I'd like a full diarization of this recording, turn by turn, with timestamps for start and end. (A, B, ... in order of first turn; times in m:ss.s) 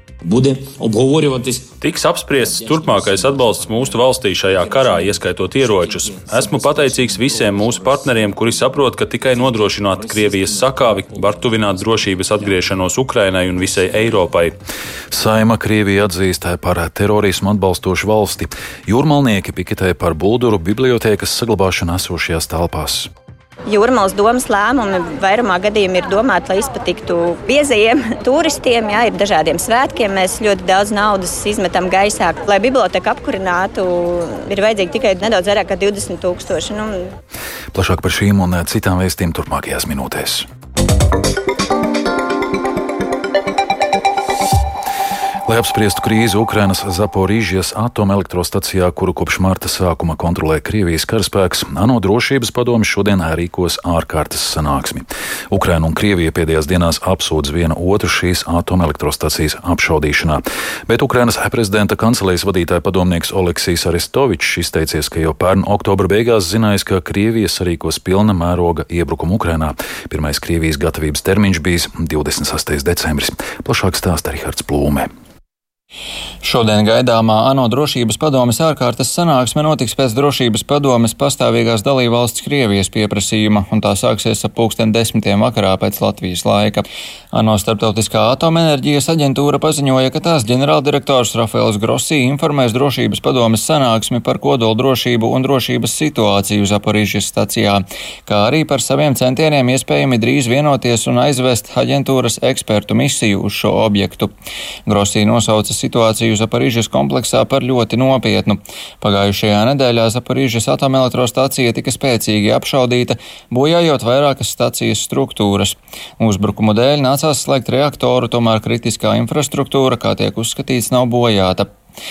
0:00.2-0:01.8 A
0:01.8-0:14.6 B
0:02.4-0:12.8 A
0:15.1-0:23.1 C
0:23.7-0:37.1 D
0:37.7-0:40.5 C
0:45.5-1:15.1 C
1:16.4-1:44.3 E
1:44.9-2:01.7 E